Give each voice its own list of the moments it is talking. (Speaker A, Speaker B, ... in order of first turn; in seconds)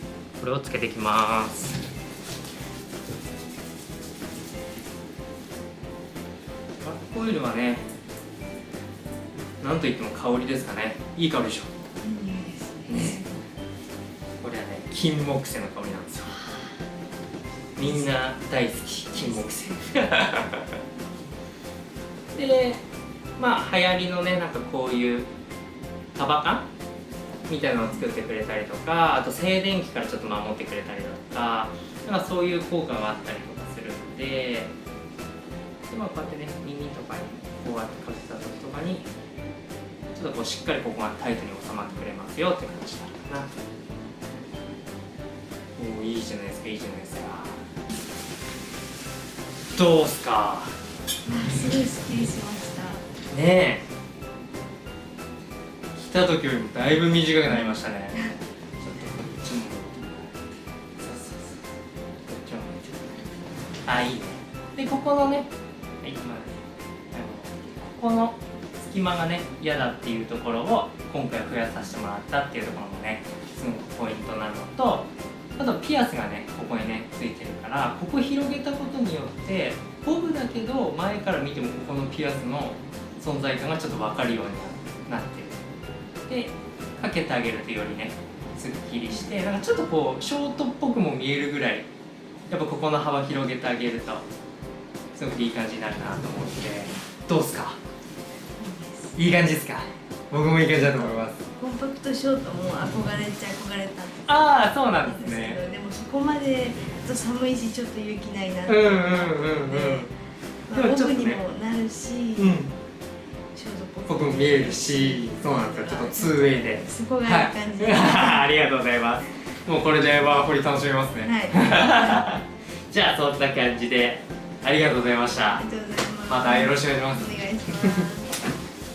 Speaker A: 0.4-1.8, 6.8-7.9, 9.6-11.7, 12.9-13.2, 14.4-16.4, 17.8-20.8, 22.3-22.8, 23.4-25.3, 26.1-26.7, 27.5-34.7, 35.9-39.1, 40.1-43.5, 45.8-47.6, 49.8-50.8, 53.3-53.8, 56.0-60.4, 61.0-61.6, 62.2-63.2, 63.9-65.5, 66.0-85.6, 86.3-91.9, 92.5-94.3, 95.2-97.8, 99.2-101.4, 104.3-105.6, 108.7-110.1, 110.7-111.4, 112.4-112.8, 114.1-125.6, 126.3-128.1
Speaker B: 12.0-13.3, 51.2-53.0, 98.6-99.2, 100.8-110.1, 110.7-112.6, 113.5-118.5, 121.2-122.2, 125.5-128.3